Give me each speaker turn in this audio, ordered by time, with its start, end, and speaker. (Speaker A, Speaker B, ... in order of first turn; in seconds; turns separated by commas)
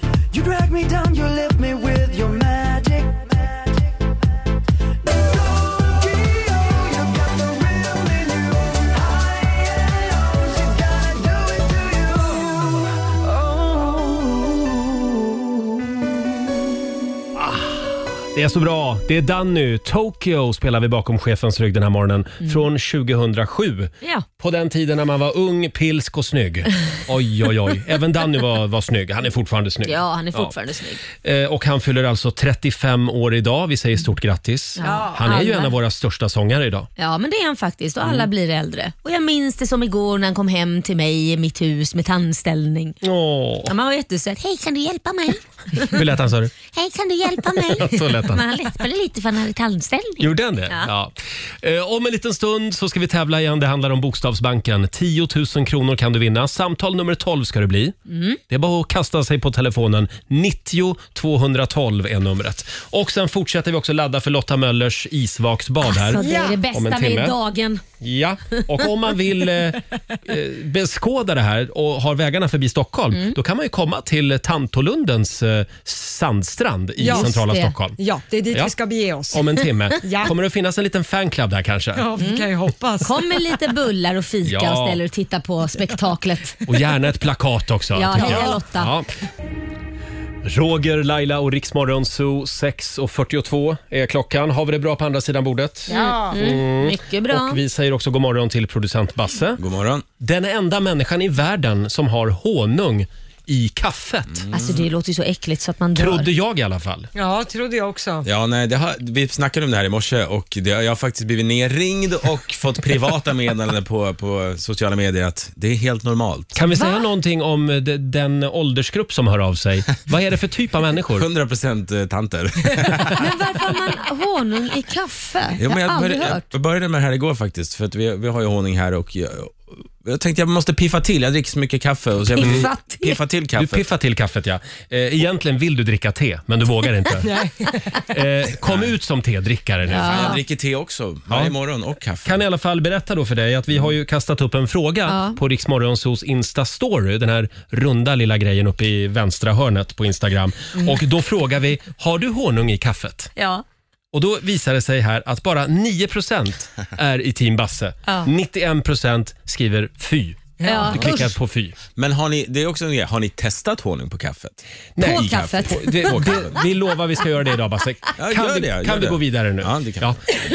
Speaker A: 0.3-3.1, Speaker A: 6.0-7.5, Speaker A: 9.0-9.6, Speaker A: 10.8-11.4, Speaker B: 17.4-30.5, Speaker C: 29.8-31.0, Speaker B: 31.2-36.9, Speaker C: 34.8-35.7, Speaker C: 37.0-43.0, Speaker B: 38.0-38.3, Speaker B: 43.0-43.7, Speaker C: 43.6-46.0, Speaker B: 45.8-46.5, Speaker C: 46.7-50.9, Speaker B: 47.5-48.5, Speaker B: 50.2-57.9, Speaker C: 58.1-58.4, Speaker B: 58.5-67.3, Speaker C: 65.8-67.8, Speaker D: 66.1-66.6, Speaker B: 68.0-78.0, Speaker C: 68.5-68.8, Speaker D: 77.0-77.4, Speaker C: 77.0-77.7, Speaker D: 78.0-79.5, Speaker B: 79.3-82.1, Speaker D: 80.0-80.3, Speaker D: 82.0-83.3, Speaker C: 82.2-82.5, Speaker C: 83.0-86.7, Speaker B: 84.4-85.0, Speaker B: 86.7-89.1, Speaker C: 87.9-88.9, Speaker D: 88.2-88.5, Speaker B: 90.4-99.6, Speaker D: 95.9-96.3, Speaker C: 95.9-97.6, Speaker E: 99.6-100.0, Speaker B: 100.2-104.4, Speaker E: 104.3-104.8, Speaker C: 104.5-106.3, Speaker B: 106.0-107.1, Speaker D: 107.1-108.2, Speaker E: 108.2-116.5, Speaker B: 116.5-121.3, Speaker C: 116.7-117.0, Speaker E: 121.2-123.2, Speaker C: 123.2-126.4, Speaker E: 125.5-133.9, Speaker C: 132.3-133.2, Speaker B: 132.4-132.7, Speaker B: 133.5-137.3, Speaker D: 137.2-138.0, Speaker B: 138.1-140.3, Speaker E: 139.9-142.4, Speaker C: 139.9-140.4, Speaker B: 141.3-141.5, Speaker B: 142.2-153.3, Speaker C: 145.1-145.4, Speaker C: 153.3-153.6, Speaker B: 154.1-161.8, Speaker C: 158.1-158.3, Speaker D: 160.6-160.9, Speaker C: 160.6-161.3, Speaker E: 161.9-166.6, Speaker B: 164.9-170.2, Speaker C: 165.0-166.1, Speaker E: 168.2-170.1